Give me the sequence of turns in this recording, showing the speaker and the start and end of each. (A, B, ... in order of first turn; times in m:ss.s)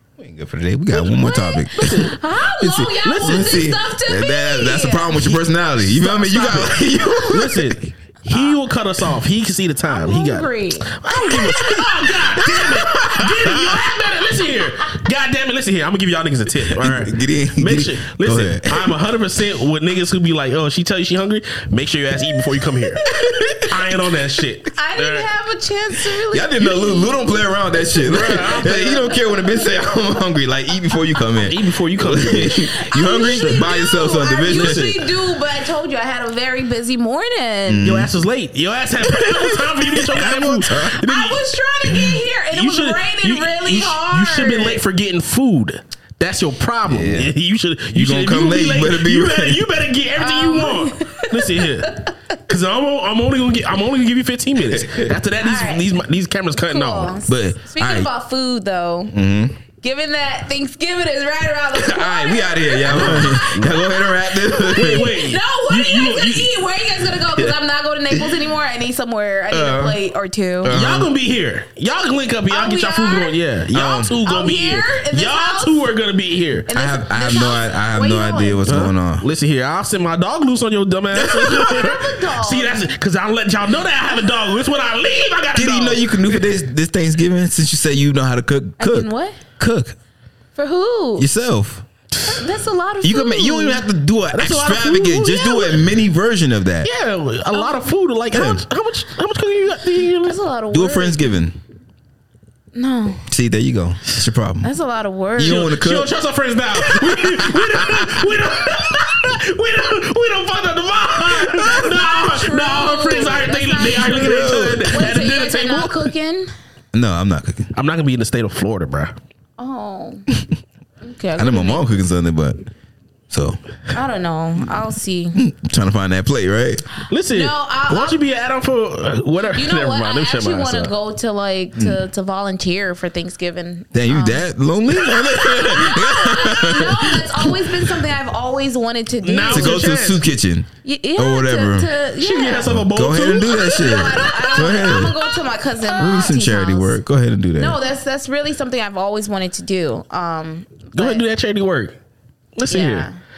0:00.2-0:07.8 A
0:00.9-0:05.4 B
0:01.8-0:02.1 C
0:03.0-0:03.5 C
0:05.9-0:07.6 B
0:06.2-0:06.7 C
0:07.3-0:23.1 C
0:09.9-0:11.8 B
0:12.5-0:13.8 A
0:16.7-0:18.9 A
0:23.0-0:23.6 B
0:23.1-0:23.6 A
0:23.6-0:25.3 C
0:24.7-0:27.2 B
0:26.3-0:34.9 A
0:28.0-0:29.1 C
0:28.1-0:29.5 B
0:31.4-0:33.7 C
0:32.7-0:38.0 B
0:34.5-0:35.0 C
0:37.7-0:38.1 A
0:37.8-0:57.2 C
0:39.1-0:41.0 A
0:40.7-0:44.8 B
0:46.8-0:47.3 A
0:47.9-0:49.6 A
0:50.2-0:52.1 B
0:54.8-0:55.1 A
0:55.4-0:55.9 B
0:56.6-0:59.2 B
0:57.3-0:58.1 A
0:59.1-0:59.6 A
0:59.8-1:10.7 B
1:01.7-1:05.1 A
1:02.9-1:03.7 C
1:04.7-1:06.6 C
1:09.5-1:10.0 A
1:10.6-1:11.1 A
1:10.7-1:16.7 C
1:12.5-1:13.4 B
1:13.7-1:14.1 A
1:14.0-1:15.8 B
1:16.7-1:18.7 B
1:16.7-1:19.2 A
1:18.6-1:26.4 C
1:21.1-1:21.8 A
1:21.3-1:22.9 B
1:25.5-1:29.1 A
1:28.8-1:29.4 B
1:29.6-1:29.9 A
1:30.6-1:31.3 B
1:31.2-1:31.8 A
1:32.1-1:32.4 C
1:32.3-1:33.8 B
1:33.0-1:36.9 A
1:34.3-1:35.8 C
1:36.8-1:40.4 C
1:37.5-1:37.9 B
1:38.3-1:38.6 A
1:40.2-1:41.4 B
1:40.7-1:41.6 A
1:42.7-1:43.2 B
1:43.3-1:44.7 A
1:44.6-1:45.7 B
1:45.4-1:46.1 A
1:45.4-1:56.1 C
1:46.7-1:48.3 A
1:51.6-1:56.5 B
1:54.0-1:55.1 A
1:56.9-1:57.7 A
1:57.7-1:59.1 C
1:59.6-2:00.3 B
2:01.0-2:01.8 B
2:01.4-2:02.6 A
2:03.3-2:03.6 A
2:03.9-2:05.4 B
2:05.3-2:06.8 A
2:07.1-2:10.9 C
2:07.3-2:08.2 B
2:09.5-2:14.4 B
2:13.9-2:17.6 A
2:15.5-2:19.8 B
2:19.2-2:20.2 C
2:19.5-2:21.9 A
2:20.8-2:22.7 B
2:22.2-2:24.9 C
2:22.7-2:25.2 A
2:23.4-2:27.0 B
2:26.0-2:27.8 A
2:27.6-2:31.2 B
2:30.9-2:32.0 C
2:32.6-2:33.1 C
2:32.7-2:33.1 B